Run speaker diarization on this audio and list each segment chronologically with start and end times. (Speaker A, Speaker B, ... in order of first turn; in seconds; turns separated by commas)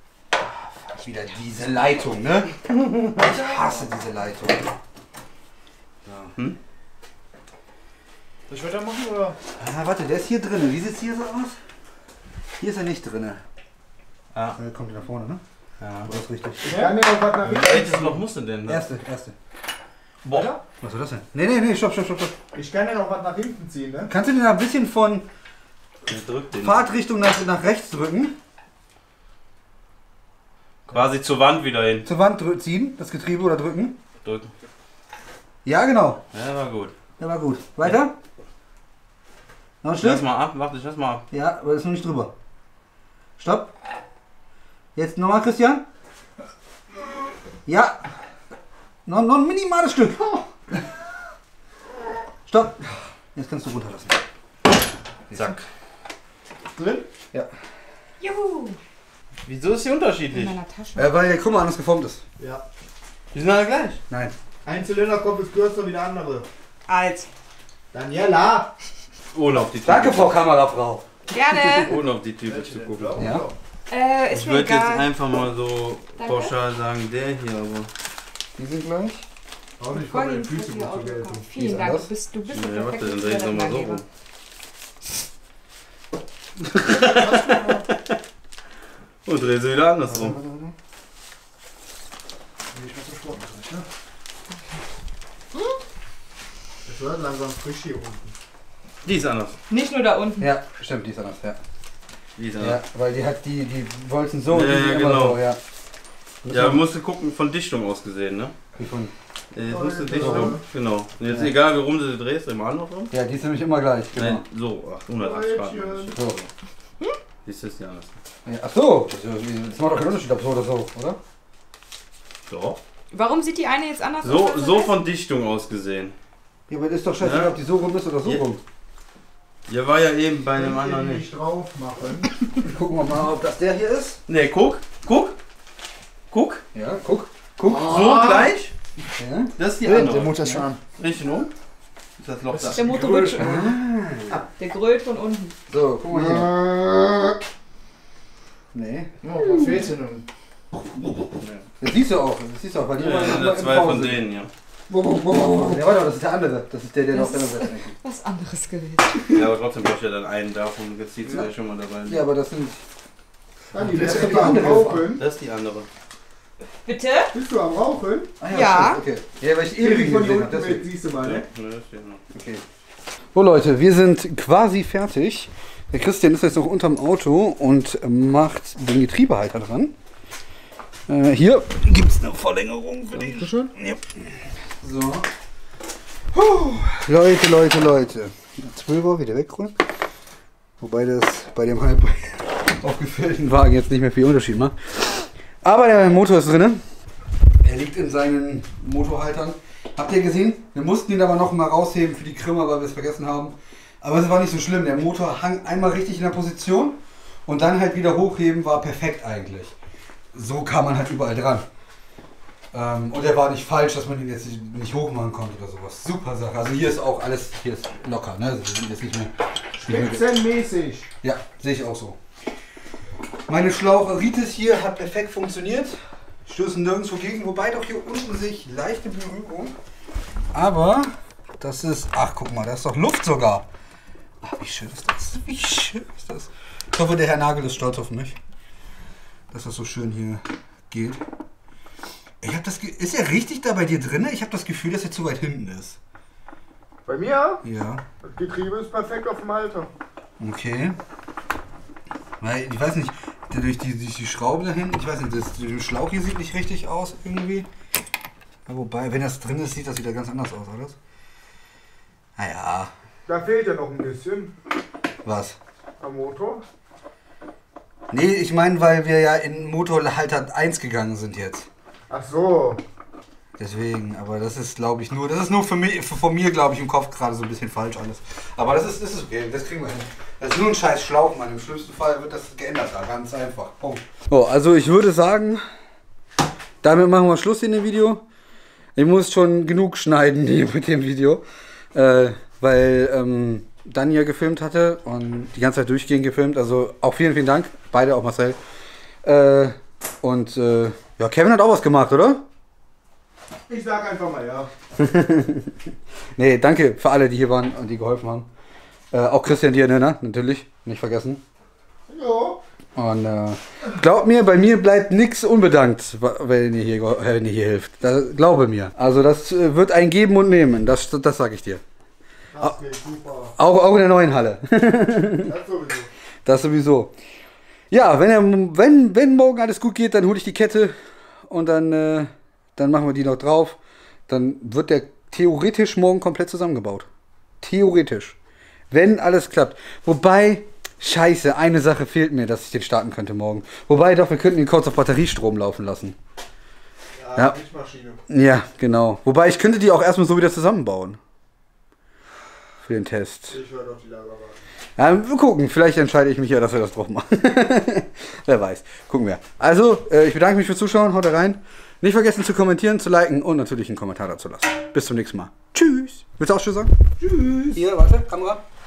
Speaker A: 0.4-4.7, Speaker A: 6.0-6.3, Speaker B: 8.5-9.4, Speaker A: 9.6-11.6, Speaker A: 12.6-13.4, Speaker A: 14.6-15.4, Speaker C: 15.8-16.1, Speaker A: 16.0-16.9, Speaker B: 16.6-18.2, Speaker C: 17.5-18.8, Speaker A: 18.7-19.3, Speaker C: 20.2-20.6, Speaker B: 20.3-20.6, Speaker A: 20.8-22.4, Speaker B: 22.5-24.1, Speaker A: 24.1-25.3, Speaker C: 26.1-26.8, Speaker A: 26.6-28.4, Speaker C: 30.9-32.1, Speaker A: 32.0-34.0, Speaker C: 34.2-34.5, Speaker A: 35.6-36.2, Speaker C: 36.3-36.9, Speaker A: 37.2-38.1, Speaker A: 39.8-40.2, Speaker C: 40.0-41.2, Speaker A: 41.3-42.3, Speaker A: 43.4-43.7, Speaker A: 44.9-45.8, Speaker A: 47.6-48.0, Speaker A: 49.0-50.3, Speaker A: 52.5-54.2, Speaker A: 55.3-55.6, Speaker B: 56.7-57.1, Speaker D: 58.2-58.8, Speaker C: 59.4-60.6, Speaker D: 60.3-61.0, Speaker A: 61.0-62.2, Speaker B: 62.4-62.6, Speaker C: 63.3-64.0, Speaker A: 64.1-64.3, Speaker B: 64.6-66.5, Speaker D: 66.9-67.3, Speaker B: 67.9-68.7, Speaker C: 69.3-70.3, Speaker A: 69.8-71.0, Speaker D: 71.3-72.0, Speaker C: 71.3-73.3, Speaker B: 72.5-73.5, Speaker A: 73.2-73.5, Speaker D: 73.9-75.1, Speaker C: 74.3-77.9, Speaker D: 76.2-76.5, Speaker A: 78.6-79.2, Speaker B: 79.8-81.5, Speaker D: 79.9-84.0, Speaker A: 81.5-82.1, Speaker C: 82.5-84.0, Speaker C: 86.7-88.2, Speaker C: 89.2-90.4, Speaker A: 90.1-90.7, Speaker B: 92.7-93.8, Speaker B: 96.8-98.3, Speaker C: 99.0-99.6, Speaker D: 99.7-100.5, Speaker A: 100.4-101.6, Speaker C: 102.4-102.8, Speaker A: 102.6-105.6, Speaker C: 104.5-105.4, Speaker A: 106.4-106.8, Speaker C: 106.5-108.5, Speaker A: 108.8-109.1, Speaker C: 109.5-113.1, Speaker B: 109.6-110.6, Speaker A: 110.1-110.5, Speaker A: 111.3-111.5, Speaker A: 113.1-114.4, Speaker C: 114.1-116.5, Speaker B: 115.2-116.2, Speaker C: 117.4-118.2, Speaker A: 118.5-121.2, Speaker C: 122.5-122.8, Speaker D: 123.1-125.0, Speaker C: 124.2-126.1, Speaker A: 126.7-128.6, Speaker C: 127.2-127.6, Speaker C: 129.7-131.3, Speaker B: 130.5-132.3, Speaker A: 132.6-134.2, Speaker C: 134.3-135.4, Speaker C: 136.3-136.6, Speaker A: 136.7-138.0, Speaker B: 137.7-138.5, Speaker C: 137.8-138.7, Speaker A: 139.2-139.5, Speaker C: 139.6-141.5, Speaker B: 139.8-140.8, Speaker C: 142.2-142.9, Speaker B: 142.5-143.4, Speaker D: 142.7-143.7, Speaker A: 143.4-144.4, Speaker D: 144.6-145.6, Speaker A: 145.7-146.7, Speaker B: 146.1-147.2, Speaker A: 148.7-149.1, Speaker B: 149.2-150.2, Speaker C: 151.4-151.7, Speaker A: 151.8-154.2, Speaker C: 153.0-154.5, Speaker B: 154.9-155.6, Speaker A: 155.2-157.9, Speaker D: 157.1-159.4, Speaker C: 159.3-162.2, Speaker A: 162.1-162.8, Speaker B: 163.7-165.2, Speaker A: 163.8-165.2, Speaker C: 163.9-165.9, Speaker D: 166.8-167.3, Speaker B: 167.3-168.3, Speaker A: 168.4-170.9, Speaker D: 168.5-169.0, Speaker B: 169.8-171.4, Speaker C: 171.2-172.2, Speaker A: 172.3-172.6, Speaker A: 173.3-179.9, Speaker A: 181.1-185.3, Speaker B: 183.1-183.7, Speaker A: 186.3-189.8, Speaker A: 190.8-196.8, Speaker A: 197.6-209.7, Speaker A: 210.3-211.7, Speaker A: 212.7-220.2, Speaker B: 219.8-221.1, Speaker A: 221.2-222.2, Speaker A: 223.5-229.7, Speaker A: 230.5-233.7, Speaker A: 234.4-238.4, Speaker A: 239.5-241.2, Speaker A: 242.4-246.0, Speaker B: 247.1-247.6, Speaker A: 247.6-248.0, Speaker B: 248.2-249.9, Speaker A: 250.4-251.0, Speaker A: 252.4-257.7, Speaker A: 258.7-261.0, Speaker A: 262.4-262.9, Speaker B: 263.3-264.5, Speaker A: 265.2-265.6, Speaker B: 266.0-266.6, Speaker A: 268.1-271.7, Speaker B: 272.1-272.8, Speaker A: 273.6-285.6, Speaker A: 286.8-288.2, Speaker A: 288.9-298.6, Speaker A: 299.2-302.4, Speaker B: 303.7-304.7, Speaker A: 305.0-305.8, Speaker A: 306.4-308.5, Speaker A: 309.1-311.4, Speaker B: 312.1-312.6, Speaker A: 312.9-321.8, Speaker B: 322.5-323.5, Speaker A: 323.5-325.5, Speaker B: 325.4-326.1, Speaker A: 326.4-327.1, Speaker A: 327.9-337.1, Speaker A: 337.6-338.4, Speaker A: 338.9-346.2, Speaker B: 347.1-348.2, Speaker A: 348.3-351.2, Speaker A: 352.8-353.6, Speaker B: 353.5-354.6, Speaker A: 355.0-366.9, Speaker B: 367.2-367.8, Speaker A: 367.7-368.6